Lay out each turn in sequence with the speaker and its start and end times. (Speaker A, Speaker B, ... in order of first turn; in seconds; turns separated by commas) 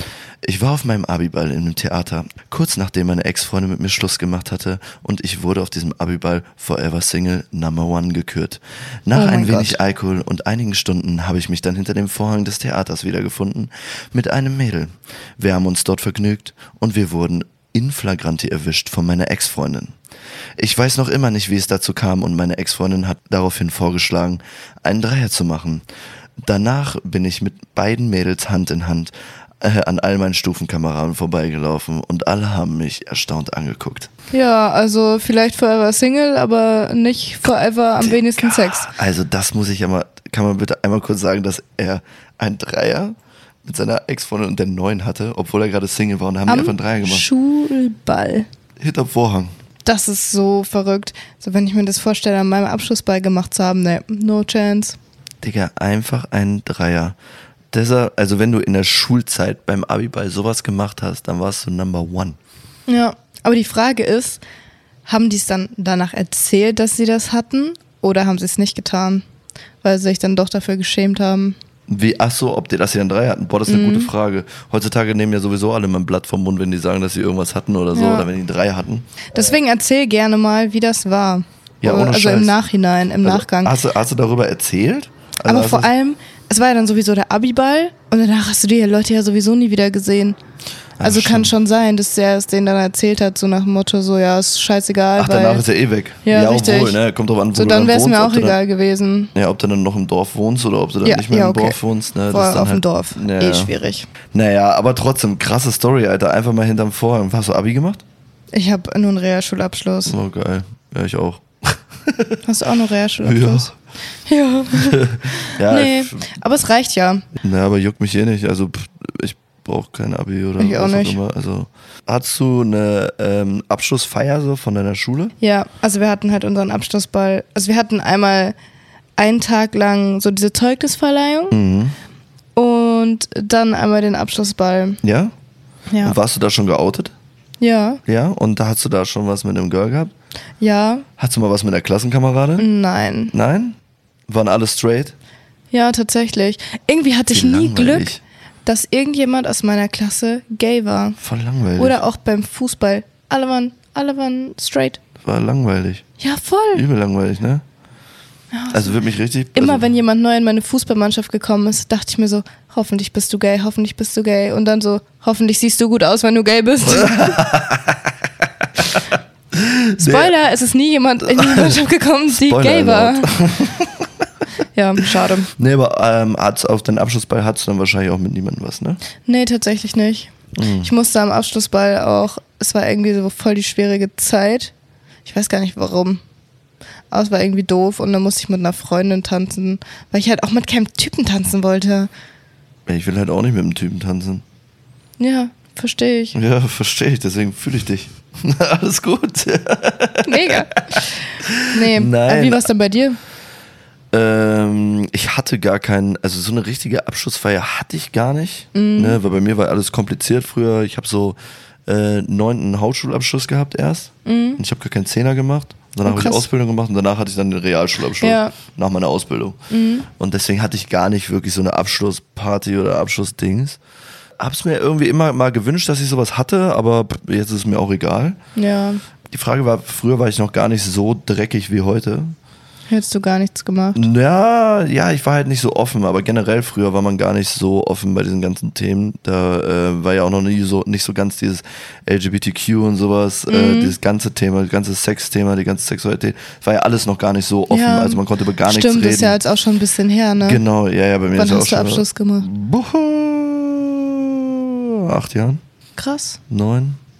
Speaker A: 0.4-19.9, Speaker B: 9.1-9.8, Speaker A: 20.6-25.8, Speaker A: 26.4-34.1, Speaker B: 34.3-38.9, Speaker A: 38.0-47.3, Speaker B: 46.5-48.5, Speaker A: 48.8-49.5, Speaker B: 49.8-55.0, Speaker A: 55.4-57.1, Speaker A: 57.7-62.4, Speaker B: 62.9-64.4, Speaker B: 65.0-69.2, Speaker B: 69.8-71.5, Speaker A: 71.9-79.5, Speaker B: 73.7-74.1, Speaker B: 77.9-78.3, Speaker B: 79.3-83.7, Speaker A: 81.8-82.6, Speaker A: 83.2-85.9, Speaker B: 85.5-90.4, Speaker A: 91.0-91.5, Speaker B: 91.0-95.6, Speaker A: 95.2-98.6, Speaker B: 96.2-97.0, Speaker B: 97.5-99.3, Speaker A: 99.3-103.7, Speaker B: 101.0-101.8, Speaker B: 102.3-104.1, Speaker A: 104.3-108.0, Speaker B: 108.5-110.1, Speaker A: 110.0-112.4, Speaker B: 112.4-113.7, Speaker A: 113.2-113.7, Speaker B: 114.3-117.2, Speaker A: 114.8-116.3, Speaker A: 117.4-125.3, Speaker B: 120.6-121.2, Speaker B: 125.4-128.6, Speaker B: 129.2-131.6, Speaker A: 131.5-131.9, Speaker B: 132.5-135.0, Speaker A: 135.0-135.3, Speaker B: 135.9-136.2, Speaker A: 136.0-137.1, Speaker B: 137.6-138.0, Speaker A: 138.1-140.1, Speaker B: 140.6-141.1, Speaker A: 141.2-142.7, Speaker B: 142.6-143.3, Speaker A: 143.3-143.8, Speaker A: 144.3-145.1, Speaker B: 145.7-151.2, Speaker A: 147.3-148.2, Speaker A: 151.2-152.0, Speaker B: 151.8-155.0, Speaker A: 155.2-156.0, Speaker B: 156.2-156.8, Speaker A: 156.7-157.6, Speaker B: 158.5-158.9, Speaker A: 158.7-159.9, Speaker B: 159.5-167.4, Speaker A: 166.8-168.0, Speaker A: 169.6-170.3, Speaker B: 170.0-173.4, Speaker A: 171.2-174.1, Speaker B: 174.7-175.5, Speaker A: 175.6-179.0, Speaker B: 179.2-184.7, Speaker A: 180.5-180.9, Speaker B: 185.2-186.2, Speaker B: 187.1-192.1, Speaker A: 192.9-194.4, Speaker B: 195.2-196.4, Speaker A: 196.3-200.6, Speaker B: 200.2-203.2, Speaker A: 201.4-202.7, Speaker A: 204.1-219.6, Speaker B: 208.7-209.2, Speaker B: 214.2-214.6, Speaker B: 216.0-216.4, Speaker B: 218.2-218.5, Speaker B: 219.7-220.1, Speaker A: 220.2-223.8, Speaker A: 224.4-228.4, Speaker B: 228.6-229.0, Speaker A: 229.3-232.3, Speaker B: 232.9-234.0, Speaker A: 233.9-249.4, Speaker B: 243.5-243.9, Speaker B: 247.7-250.6, Speaker A: 250.4-255.6, Speaker B: 251.3-252.5, Speaker B: 256.0-256.4, Speaker A: 256.5-257.0